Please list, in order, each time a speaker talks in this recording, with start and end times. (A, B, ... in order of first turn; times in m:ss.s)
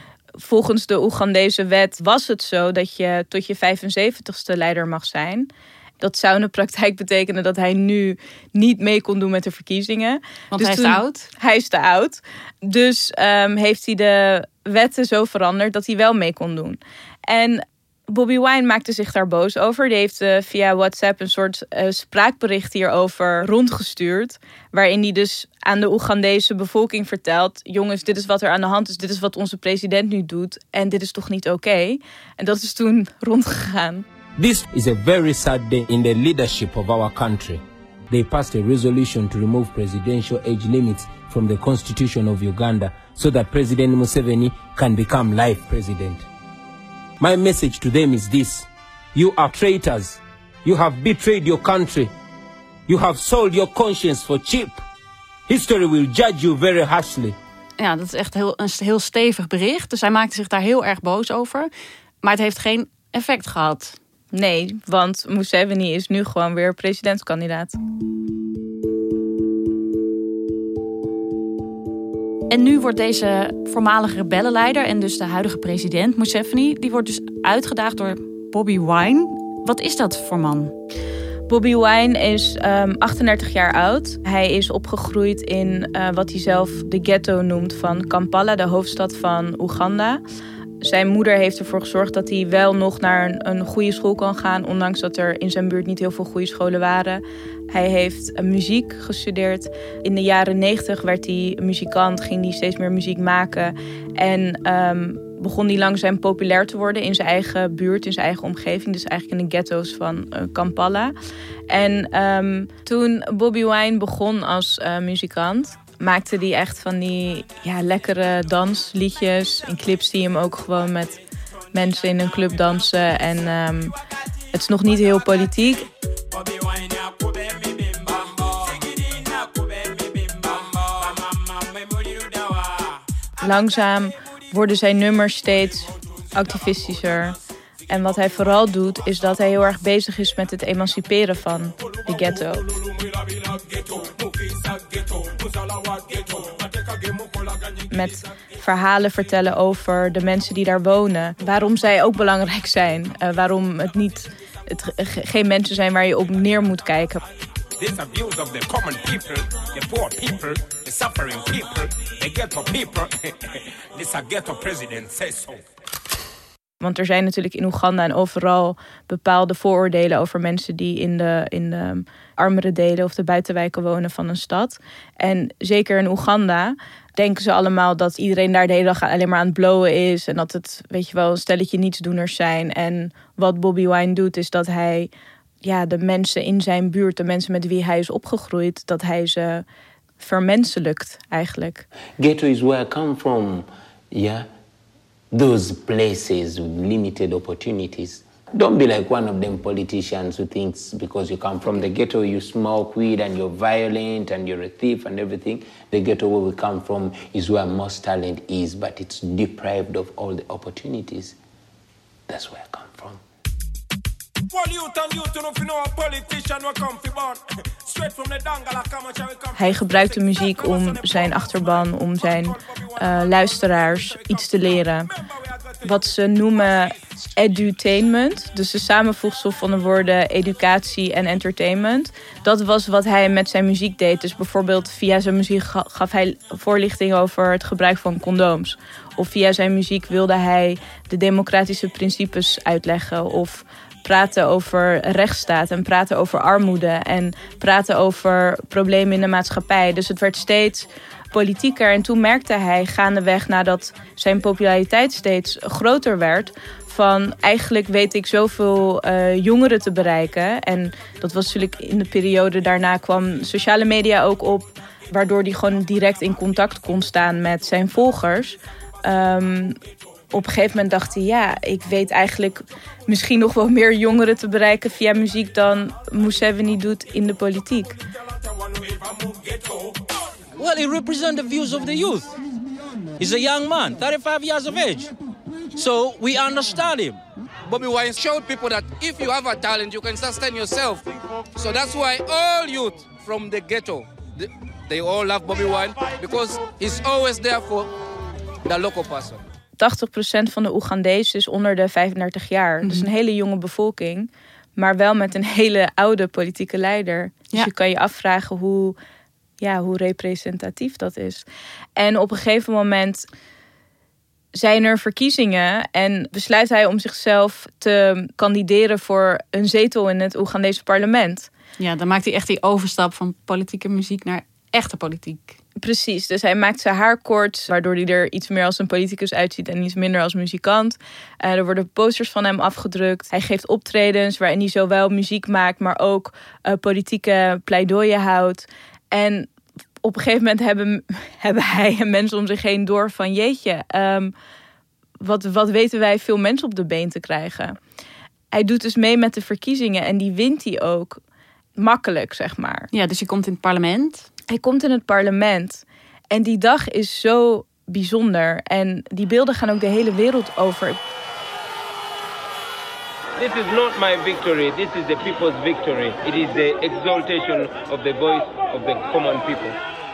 0:00.4-0:05.5 A
0:06.0-0:34.0 A
0:10.5-0:11.3 B
0:34.4-0:46.3 C
0:47.2-0:52.1 C
0:52.9-0:54.8 C
0:55.5-0:57.4 C
0:57.8-1:01.7 B
1:02.2-1:04.0 B
1:04.3-1:07.8 A
1:12.5-1:20.7 B
1:21.5-1:30.2 A
1:30.8-1:51.1 A
1:51.7-2:01.2 A
2:01.7-2:03.9 A
2:04.5-2:05.9 A
2:13.4-2:17.4 A
2:17.9-2:22.7 A
2:27.9-2:37.2 A
2:37.8-2:43.3 C
2:44.0-2:45.6 C
2:46.8-3:05.1 A
3:05.6-3:09.6 A
3:10.2-3:11.8 A
3:12.2-3:14.5 C
3:15.3-3:31.4 C
3:32.3-3:33.2 C
3:34.5-3:37.4 C
3:38.0-3:38.9 C
3:39.6-3:45.1 A
3:45.8-4:29.8 A
4:30.3-4:38.0 A
4:40.6-4:42.3 D
4:43.2-4:45.1 D
4:45.8-4:47.2 D
4:47.7-4:51.0 E
4:51.6-4:57.9 E
4:58.6-4:59.4 E
4:59.8-5:09.0 A
5:09.6-5:13.3 A
5:14.6-5:21.5 A
5:21.8-5:25.6 B
5:25.8-5:39.5 A
5:40.0-5:44.3 A
5:45.2-5:47.8 A
5:48.5-5:51.2 A
5:51.8-5:52.9 A
5:52.9-5:54.3 B
5:54.5-6:01.0 A
6:03.4-6:09.8 C